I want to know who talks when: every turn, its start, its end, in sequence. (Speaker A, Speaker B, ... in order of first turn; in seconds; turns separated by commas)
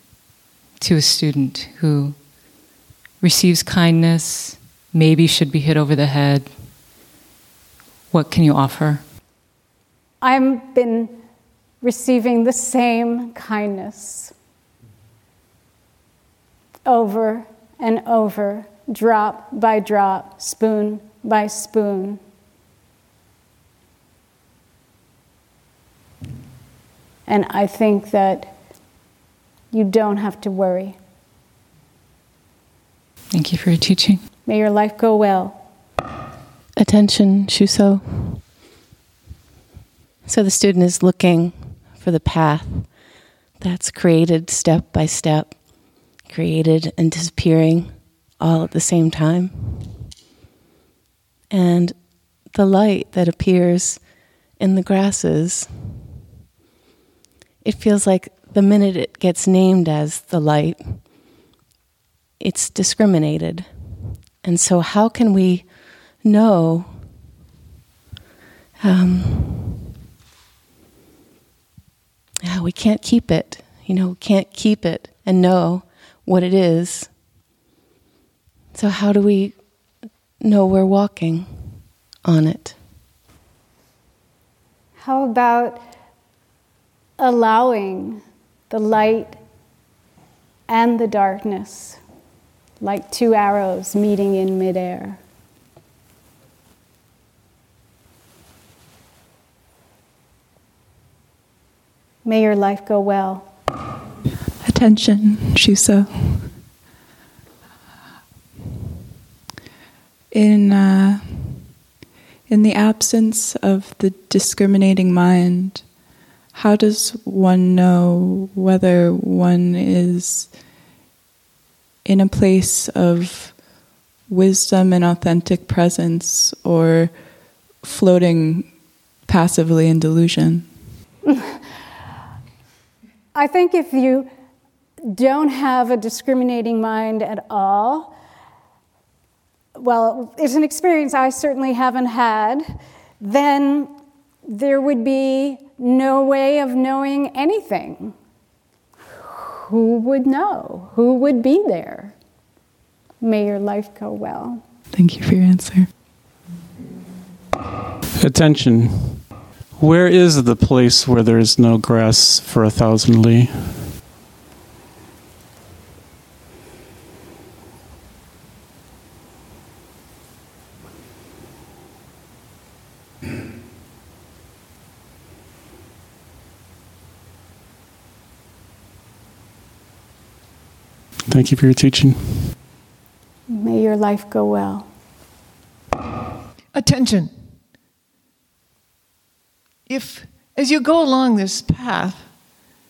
Speaker A: 0.8-2.2, Speaker A: 3.2-6.7, Speaker A: 8.1-9.1, Speaker B: 10.2-11.2, Speaker B: 11.8-14.3, Speaker B: 16.9-22.2, Speaker B: 27.3-28.5, Speaker B: 29.7-31.0, Speaker A: 33.3-34.2, Speaker B: 34.5-35.6, Speaker C: 36.8-38.4, Speaker C: 40.2-43.1, Speaker C: 43.6-50.0, Speaker C: 51.5-56.0, Speaker C: 57.6-61.2, Speaker C: 62.4-67.1, Speaker C: 68.8-69.8, Speaker C: 72.4-77.2, Speaker C: 78.7-82.8, Speaker B: 85.0-85.8, Speaker B: 87.2-89.4, Speaker B: 90.7-92.0, Speaker B: 92.8-95.2, Speaker B: 102.2-103.5, Speaker D: 104.6-106.6, Speaker D: 110.3-111.7, Speaker D: 112.5-115.9, Speaker D: 116.5-120.6, Speaker D: 122.0-123.6, Speaker D: 124.3-127.2, Speaker D: 127.8-130.7, Speaker B: 131.3-131.6, Speaker B: 133.3-134.3, Speaker B: 135.1-138.1, Speaker B: 139.8-143.9, Speaker B: 144.4-148.1, Speaker B: 149.2-152.1, Speaker B: 153.2-154.6, Speaker D: 154.9-155.9, Speaker E: 158.2-159.2, Speaker E: 159.8-163.9, Speaker E: 181.3-182.4, Speaker B: 183.5-184.9, Speaker F: 186.7-187.3, Speaker F: 189.9-192.3